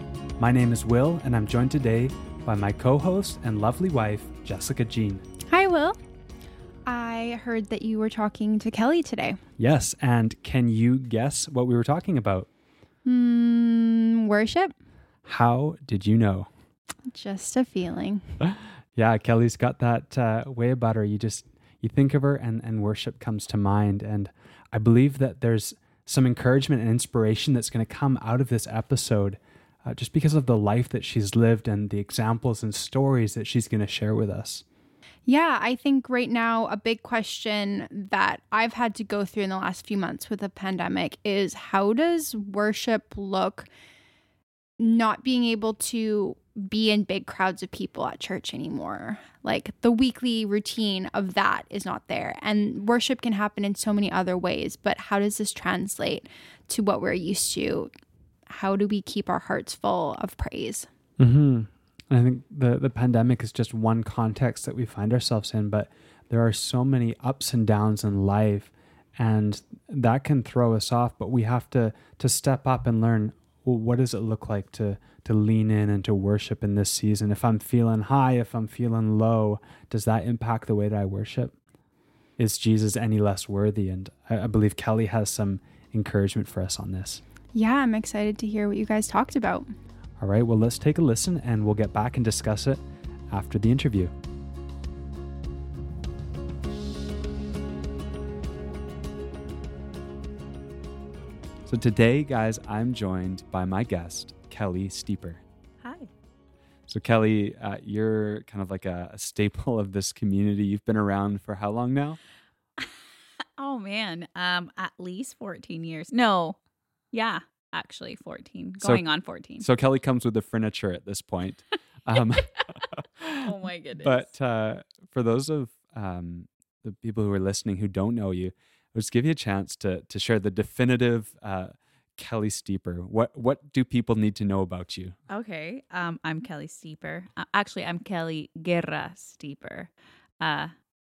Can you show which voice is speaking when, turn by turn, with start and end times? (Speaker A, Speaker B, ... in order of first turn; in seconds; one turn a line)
Speaker A: 0.4-5.2
Speaker B: 5.5-6.0
Speaker B: 6.9-9.4
Speaker A: 9.6-12.5
Speaker B: 13.1-14.7
Speaker A: 15.3-16.5
Speaker B: 17.1-18.4
Speaker A: 18.4-34.6
Speaker B: 35.3-43.7
Speaker B: 44.8-57.9
Speaker B: 58.5-60.9
Speaker A: 61.2-81.6
Speaker A: 82.4-87.2
Speaker B: 87.5-89.7
Speaker A: 90.2-92.8
Speaker A: 93.3-94.1
Speaker A: 101.7-105.4
Speaker C: 105.8-106.1
Speaker A: 106.9-112.2
Speaker C: 113.6-116.6
Speaker C: 117.1-119.7
Speaker A: 119.6-123.4
Speaker C: 123.4-124.3
Speaker A: 124.0-135.2
Speaker C: 135.3-140.7